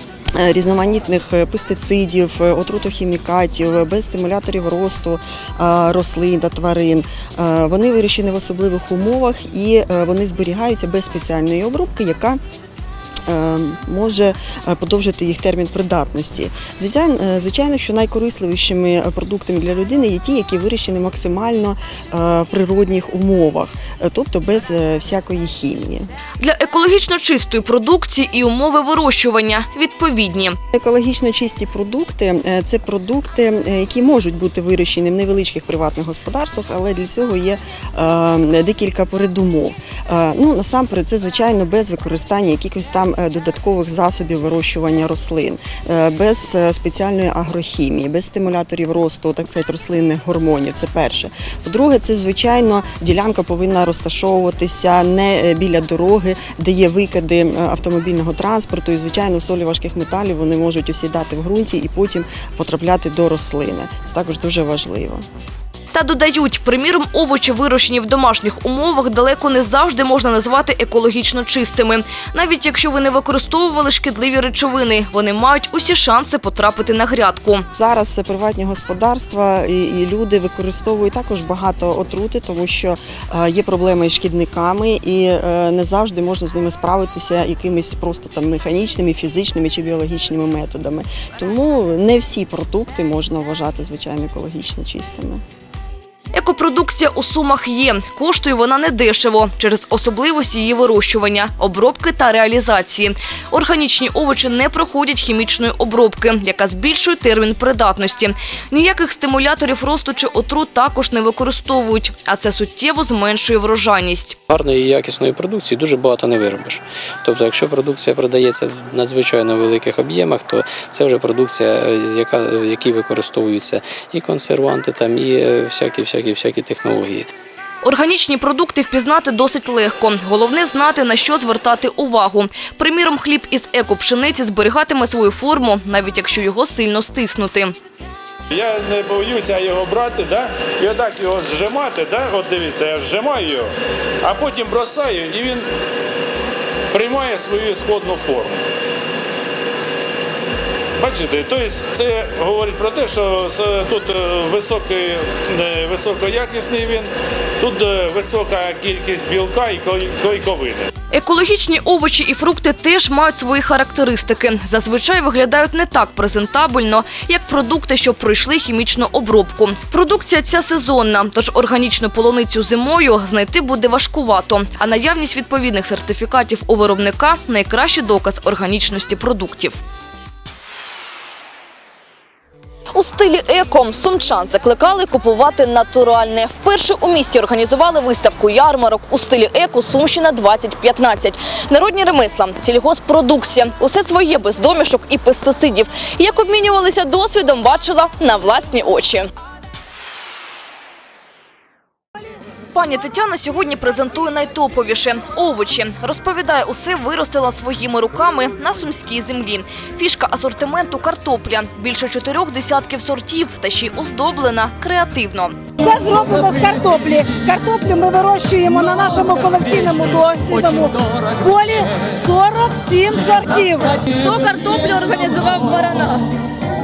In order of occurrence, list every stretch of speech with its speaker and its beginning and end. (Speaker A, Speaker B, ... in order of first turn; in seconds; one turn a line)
Speaker A: 0.4-12.4
Speaker A: 13.2-26.1
Speaker B: 26.4-30.6
Speaker A: 30.7-65.2
Speaker B: 65.9-77.7
Speaker A: 77.8-95.4
Speaker B: 96.3-114.4
Speaker C: 114.5-127.3
Speaker B: 127.8-137.7
Speaker D: 138.5-143.7
Speaker D: 144.2-145.6
Speaker D: 146.9-148.5
Speaker D: 151.0-157.1
Speaker D: 157.6-160.8
Speaker B: 161.1-179.8
Speaker B: 182.9-199.3
Speaker B: 202.7-215.6
Speaker E: 215.8-223.9
Speaker B: 224.1-226.2